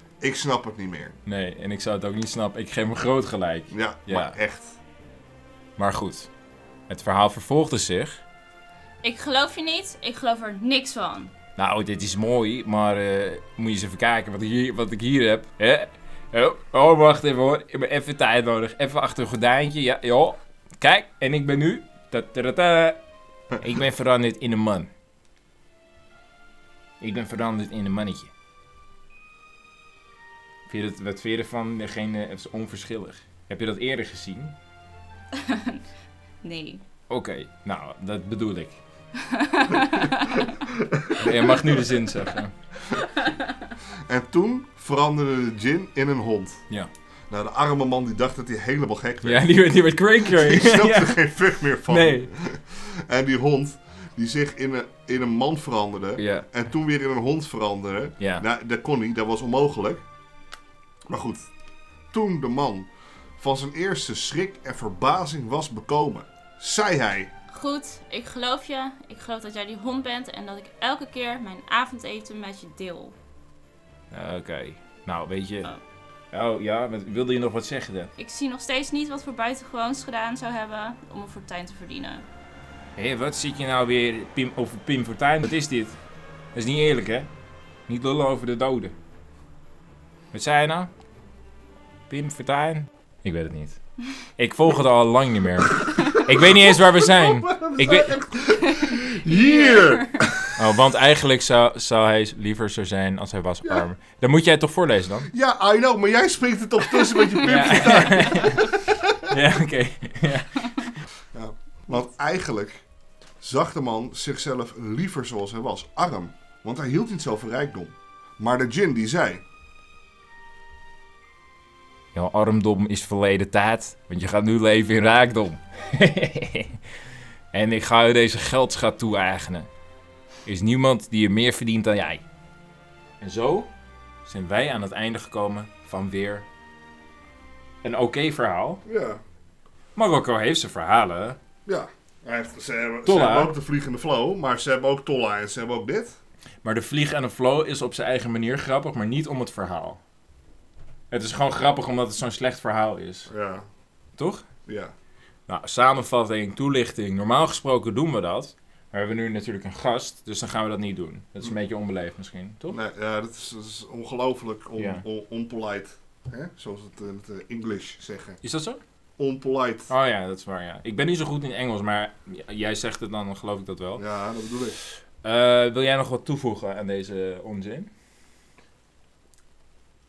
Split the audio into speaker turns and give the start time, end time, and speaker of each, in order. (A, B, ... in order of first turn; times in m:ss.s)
0:00.2-0:01.2 A
0:01.2-0:04.4 B
0:03.7-0:04.8 A
0:05.8-0:06.3 B
0:06.9-0:08.2 B
0:09.0-0:11.3 C
0:11.6-0:23.0 B
0:23.6-0:24.9 B
0:27.0-0:28.3 B
0:30.7-0:34.6 B
0:35.4-0:35.8 C
0:36.4-0:36.8 C
0:37.1-0:38.8 B
0:39.2-0:40.5 C
0:40.6-0:41.8 A
0:41.2-0:42.5 B
0:44.1-0:46.6 A
0:47.3-0:49.5 A
0:49.2-0:51.3 B
0:50.2-1:00.0 A
0:51.8-0:52.3 B
0:56.2-0:56.5 B
0:58.2-0:58.4 B
1:01.1-1:01.5 A
1:02.1-1:07.3 A
1:07.5-1:13.2 C
1:14.1-1:15.7 B
1:16.3-1:18.1 B
1:18.2-1:22.2 C
1:23.0-1:26.0 B
1:26.5-1:27.3 B
1:27.9-1:28.9 B
1:30.3-1:30.9 B
1:32.1-1:33.8 B
1:34.4-1:38.1 B
1:35.6-1:40.6 A
1:38.6-1:40.2 C
1:40.6-1:45.3 B
1:45.3-1:49.2 A
1:47.4-1:50.9 B
1:47.6-1:48.4 C
1:51.3-1:52.8 A
1:53.4-1:59.4 A
2:02.1-2:06.8 B
2:07.5-2:09.7 B
2:10.4-2:12.2 B
2:13.2-2:13.7 B
2:14.2-2:16.4 B
2:17.8-2:18.8 B
2:18.8-2:19.2 A
2:20.0-2:21.4 B
2:21.6-2:26.2 A
2:23.0-2:23.5 B
2:26.6-2:30.0 B
2:31.1-2:33.3 B
2:33.3-2:33.6 A
2:34.2-2:34.5 B
2:34.6-2:34.9 A
2:35.5-2:42.8 B
2:42.7-2:48.4 A
2:44.8-2:45.0 B
2:48.4-2:48.8 B
2:49.2-2:49.9 A
2:49.9-2:54.0 B
2:54.0-2:54.8 A
2:55.2-2:57.9 B